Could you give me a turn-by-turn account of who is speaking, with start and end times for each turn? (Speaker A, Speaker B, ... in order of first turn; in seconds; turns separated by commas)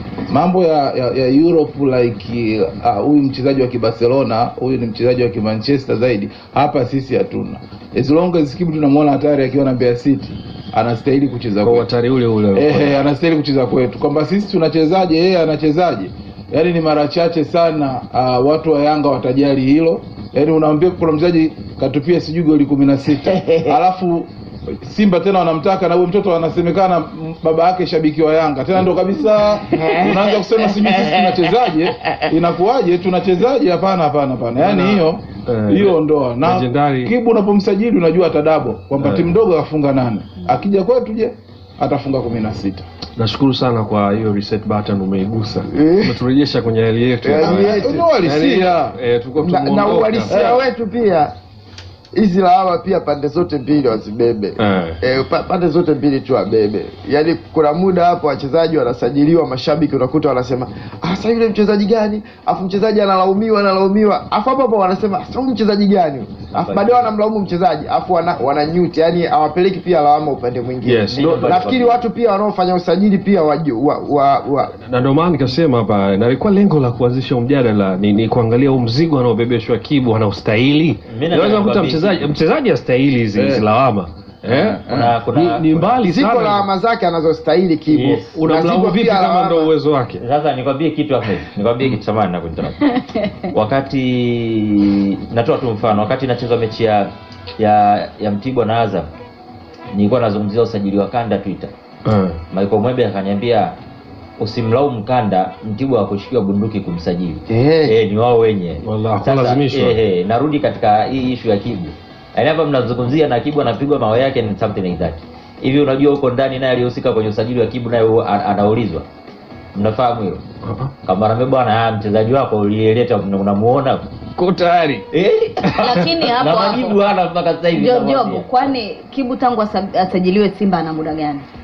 Speaker A: 0.3-11.9, Speaker B: 11.6-13.0, Speaker A: 12.5-24.3, Speaker C: 23.2-23.8, Speaker A: 24.8-42.8, Speaker C: 29.7-31.3, Speaker B: 34.6-37.1, Speaker B: 39.0-39.4, Speaker B: 43.2-50.6, Speaker C: 45.7-46.2, Speaker C: 47.2-48.1, Speaker A: 47.4-49.0, Speaker C: 49.4-51.3, Speaker A: 50.3-50.7, Speaker C: 52.1-74.7, Speaker B: 54.6-55.0, Speaker D: 66.5-67.1, Speaker B: 70.8-71.6, Speaker D: 71.1-72.1, Speaker B: 74.7-86.7, Speaker D: 81.1-82.2, Speaker A: 83.3-83.7, Speaker A: 84.5-85.1, Speaker D: 84.9-85.9, Speaker C: 86.0-89.7, Speaker D: 87.9-88.3, Speaker B: 88.3-90.2, Speaker D: 90.2-92.9, Speaker D: 93.5-99.1, Speaker D: 99.9-101.7, Speaker B: 102.0-102.4, Speaker D: 102.5-103.8, Speaker D: 104.4-119.0, Speaker C: 107.5-108.0, Speaker B: 108.8-110.0, Speaker D: 119.7-120.4, Speaker D: 121.0-124.1, Speaker B: 124.4-125.0, Speaker D: 125.1-128.7, Speaker B: 125.7-125.9, Speaker E: 126.0-126.9, Speaker E: 127.7-131.4